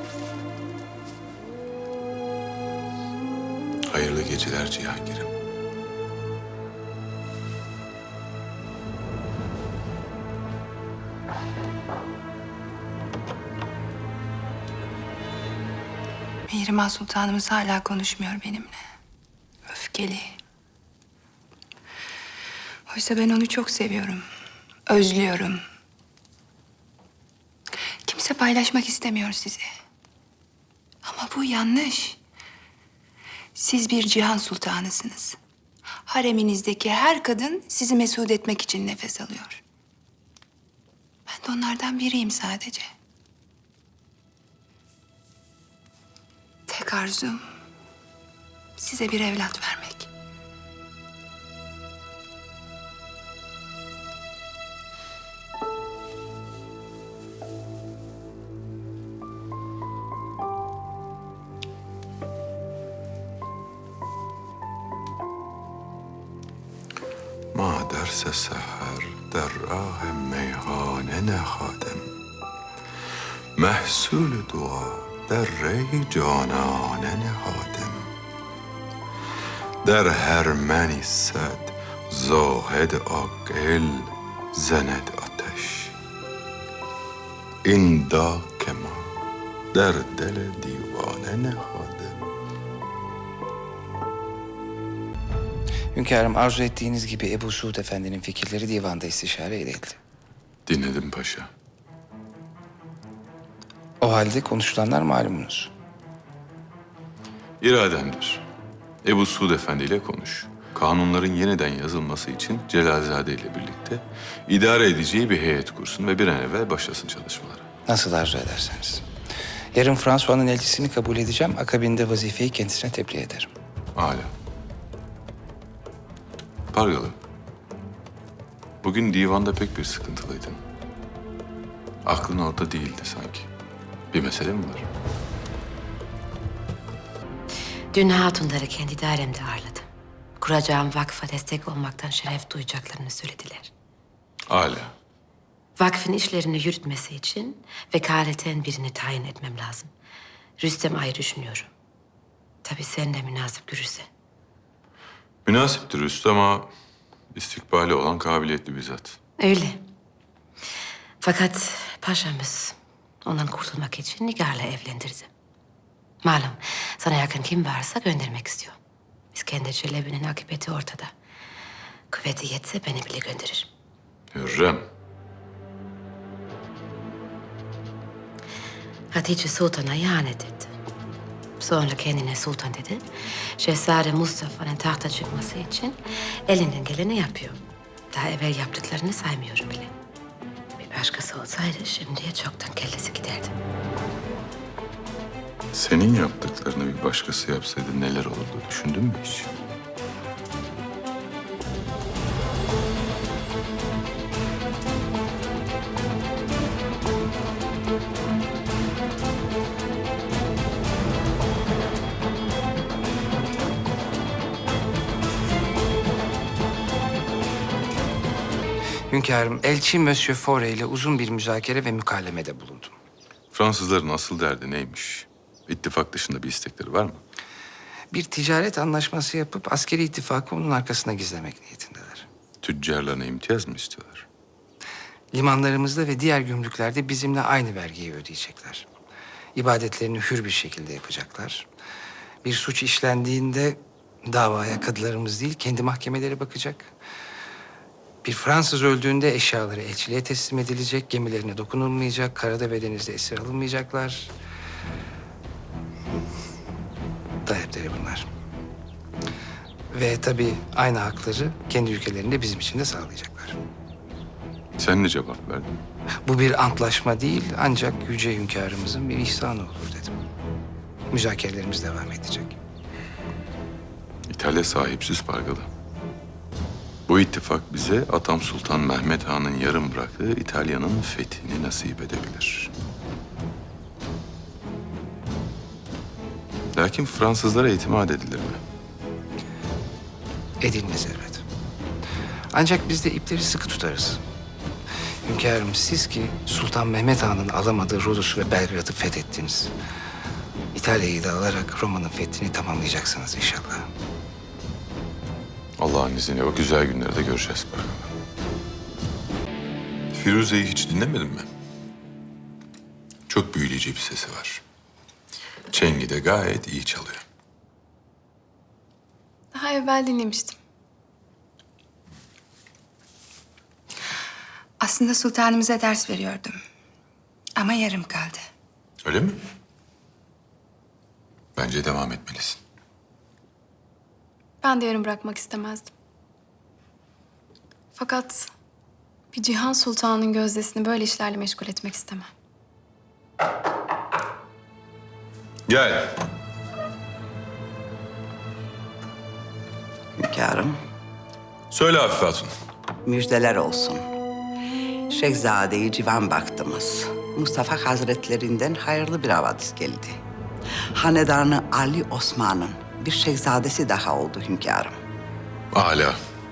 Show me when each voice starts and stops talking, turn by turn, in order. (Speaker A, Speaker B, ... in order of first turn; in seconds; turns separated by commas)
Speaker A: 3.9-5.3, Speaker B: 16.5-18.8, Speaker B: 19.7-20.4, Speaker B: 22.9-24.2, Speaker B: 24.9-25.6, Speaker B: 28.1-29.7, Speaker B: 31.0-32.2, Speaker B: 33.5-35.4, Speaker B: 36.1-39.6, Speaker B: 41.3-42.9, Speaker B: 46.7-47.5, Speaker B: 48.8-50.1, Speaker A: 67.5-72.0, Speaker A: 73.5-78.1, Speaker A: 79.8-85.9, Speaker A: 87.6-89.1, Speaker A: 89.7-92.2, Speaker C: 95.9-100.0, Speaker A: 100.7-101.5, Speaker C: 104.0-105.7, Speaker A: 107.6-108.4, Speaker A: 109.0-117.7, Speaker C: 117.9-119.0, Speaker C: 119.7-123.5, Speaker A: 124.0-124.3, Speaker A: 126.7-127.2, Speaker A: 128.8-130.6, Speaker A: 132.0-133.5, Speaker A: 134.1-134.9, Speaker D: 137.9-139.9, Speaker D: 140.4-143.7, Speaker A: 144.5-144.9, Speaker D: 145.8-149.9, Speaker D: 150.6-151.7, Speaker D: 152.6-154.1, Speaker A: 155.4-156.7, Speaker A: 157.3-159.2, Speaker D: 159.4-159.8, Speaker D: 161.2-165.3, Speaker D: 166.2-168.8, Speaker D: 169.3-171.1, Speaker D: 172.1-173.7, Speaker A: 174.3-174.8, Speaker D: 179.1-180.7, Speaker D: 181.6-183.1, Speaker D: 183.6-187.6, Speaker D: 188.1-189.9, Speaker D: 190.8-193.5, Speaker A: 195.7-199.5, Speaker C: 219.1-222.9, Speaker A: 223.5-227.2, Speaker C: 228.1-232.3, Speaker A: 232.6-234.2, Speaker C: 235.3-238.9, Speaker C: 239.5-241.7, Speaker C: 242.4-246.9, Speaker C: 248.2-254.3, Speaker C: 257.4-258.3, Speaker C: 259.9-263.6, Speaker A: 264.8-265.8, Speaker C: 266.2-270.1, Speaker C: 271.1-272.6, Speaker A: 274.3-275.7, Speaker A: 277.1-282.7, Speaker A: 286.8-288.6, Speaker C: 290.6-291.4, Speaker C: 292.5-294.2, Speaker C: 295.2-299.7, Speaker C: 300.7-303.9, Speaker A: 305.8-308.1, Speaker A: 310.1-311.5, Speaker A: 313.3-314.6, Speaker A: 315.7-317.2, Speaker E: 319.5-320.6, Speaker B: 324.8-326.6, Speaker B: 327.6-328.4, Speaker A: 329.0-329.4, Speaker A: 331.6-332.6, Speaker E: 334.6-335.9, Speaker E: 337.9-338.5, Speaker E: 339.3-342.3, Speaker A: 345.7-346.1, Speaker F: 350.2-350.8, Speaker A: 351.7-352.5, Speaker F: 353.0-354.0, Speaker F: 355.1-360.2, Speaker F: 360.9-365.0, Speaker A: 365.7-366.2